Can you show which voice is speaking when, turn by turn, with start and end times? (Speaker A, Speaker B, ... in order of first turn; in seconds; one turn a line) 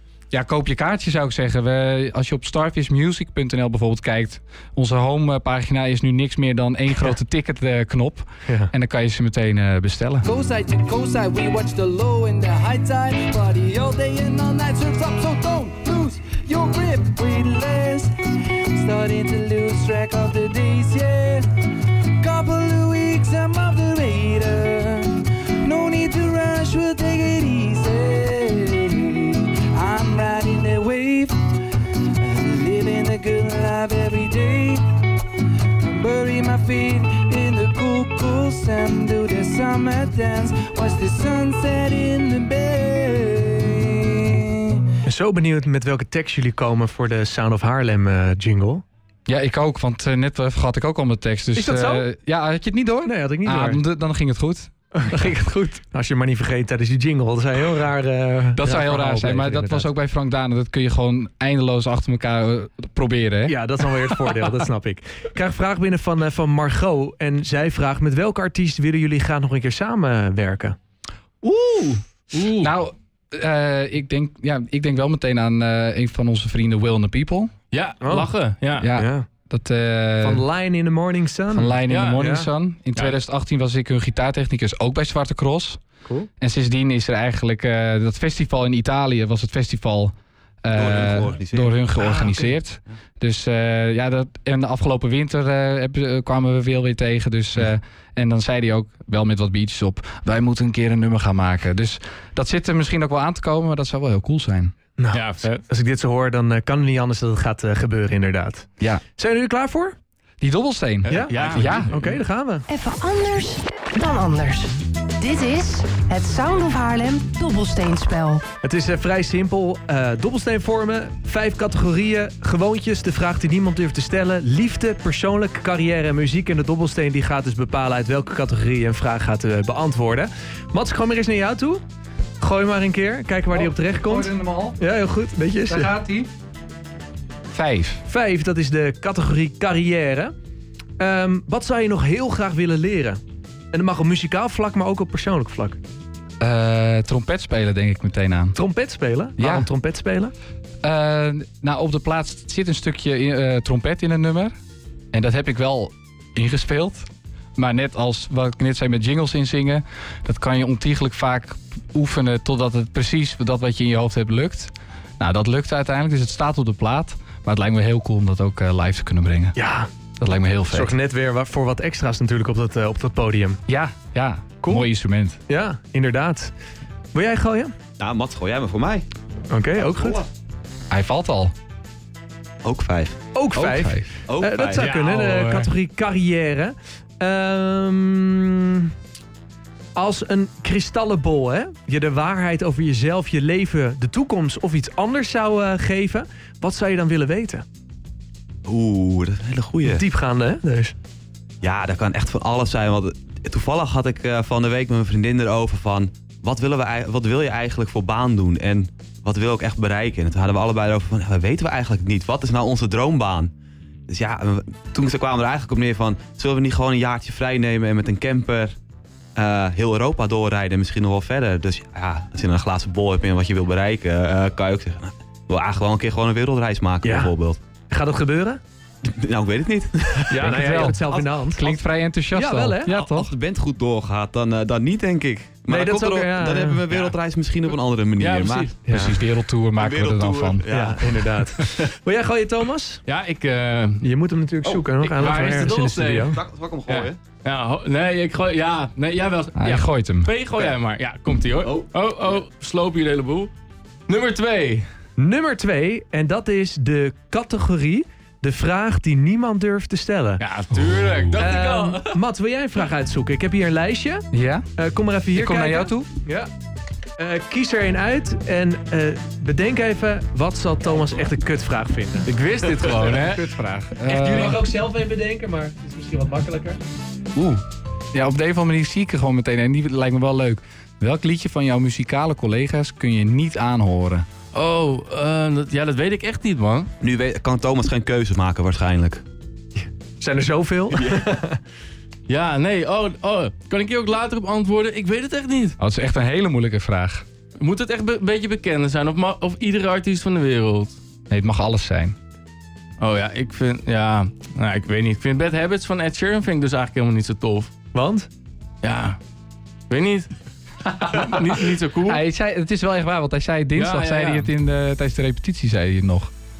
Speaker A: 0.3-10.3
Speaker B: 10.2-45.0
Speaker C: 45.0-48.8
Speaker A: 49.3-55.6
Speaker C: 51.5-52.0
Speaker C: 53.0-53.8
Speaker C: 55.0-59.9
Speaker A: 58.5-63.6
Speaker C: 63.5-70.8
Speaker A: 71.4-72.0
Speaker D: 72.3-72.7
Speaker A: 72.6-77.5
Speaker D: 77.7-78.9
Speaker C: 78.0-78.3
Speaker A: 78.8-80.4
Speaker C: 78.9-79.3
Speaker C: 80.2-82.5
Speaker A: 81.5-85.8
Speaker D: 81.9-82.2
Speaker C: 86.0-86.3
Speaker A: 86.4-104.8
Speaker E: 90.7-91.8
Speaker C: 105.0-110.0
Speaker D: 105.1-105.6
Speaker A: 110.4-111.9
Speaker D: 111.0-112.0
Speaker C: 111.1-112.7
Speaker F: 112.7-118.4
Speaker C: 118.6-131.8
Speaker C: 132.4-135.9
Speaker A: 133.5-134.8
Speaker A: 135.7-136.3
Speaker A: 137.5-138.0
Speaker C: 138.1-140.3
Speaker C: 141.0-143.2
Speaker C: 143.7-145.8
Speaker A: 146.4-148.6
Speaker C: 148.5-150.3
Speaker A: 149.4-149.7
Speaker A: 150.8-154.5
Speaker A: 155.1-169.6
Speaker C: 169.6-169.9
Speaker A: 170.2-170.9
Speaker C: 170.7-173.6
Speaker A: 173.7-175.4
Speaker C: 175.5-176.5
Speaker C: 177.1-177.7
Speaker E: 178.0-179.1
Speaker C: 179.5-180.2
Speaker E: 179.8-180.3
Speaker A: 180.9-181.5
Speaker E: 182.6-183.7
Speaker C: 183.3-188.9
Speaker A: 183.6-184.1
Speaker E: 184.2-184.9
Speaker D: 184.8-185.7
Speaker C: 189.9-197.6
Speaker E: 198.7-200.0
Speaker C: 199.8-200.9
Speaker E: 201.6-213.5
Speaker E: 214.1-218.8
Speaker E: 219.3-227.6
Speaker C: 227.0-227.3
Speaker C: 227.9-228.6
Speaker E: 229.0-230.6
Speaker C: 230.3-231.6
Speaker A: 230.4-233.3
Speaker C: 232.3-233.0
Speaker E: 232.9-238.8
Speaker C: 235.7-236.8
Speaker D: 238.2-238.8
Speaker C: 238.8-239.2
Speaker A: 238.9-240.6
Speaker E: 239.8-241.4
Speaker C: 240.7-243.0
Speaker D: 243.1-244.1
Speaker C: 244.0-246.4
Speaker D: 245.0-253.5
Speaker E: 246.3-247.2
Speaker A: 249.6-250.3
Speaker D: 254.1-254.9
Speaker C: 255.2-260.4
Speaker D: 260.4-262.2
Speaker C: 261.4-266.5
Speaker A: 264.3-264.7
Speaker A: 265.3-266.1
Speaker C: 267.2-273.1
Speaker D: 272.2-273.4
Speaker A: 273.1-274.6
Speaker C: 274.0-276.8
Speaker A: 277.3-277.6
Speaker A: 278.1-284.2
Speaker D: 284.5-286.9
Speaker E: 287.0-289.2
Speaker C: 290.2-291.6
Speaker D: 292.3-295.8
Speaker A: 295.8-297.2
Speaker D: 297.6-301.0
Speaker A: 301.3-302.1
Speaker D: 303.0-307.7
Speaker C: 307.9-308.3
Speaker D: 308.8-309.2
Speaker D: 309.9-310.3
Speaker D: 311.0-312.2
Speaker A: 311.0-311.5
Speaker A: 312.0-316.3
Speaker D: 313.7-314.5